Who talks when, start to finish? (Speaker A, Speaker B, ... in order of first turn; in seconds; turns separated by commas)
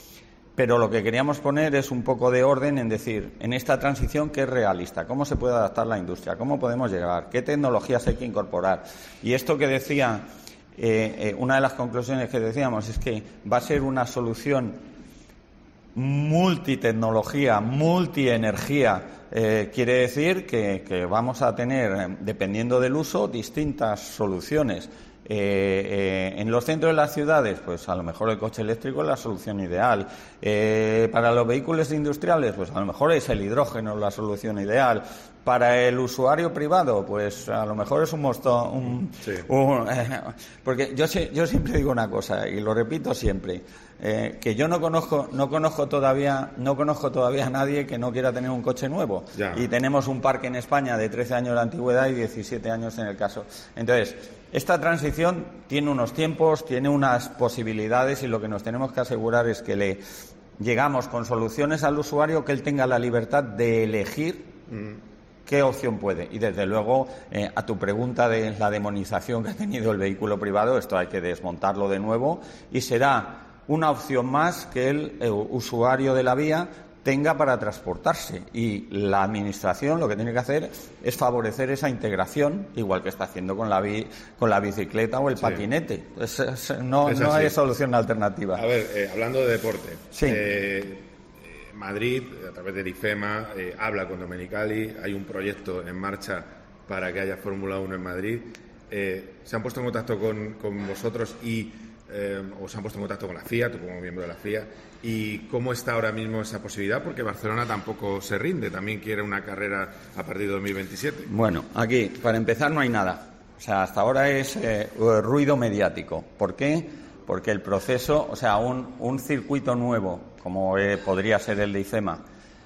Speaker A: 0.6-10.2, Speaker A: 10.8-14.8, Speaker A: 15.9-60.0, Speaker B: 49.4-49.6, Speaker A: 60.6-64.5, Speaker B: 64.7-65.0, Speaker A: 65.5-88.6, Speaker B: 87.1-87.5, Speaker B: 88.5-111.3, Speaker A: 90.1-90.4, Speaker A: 111.3-122.2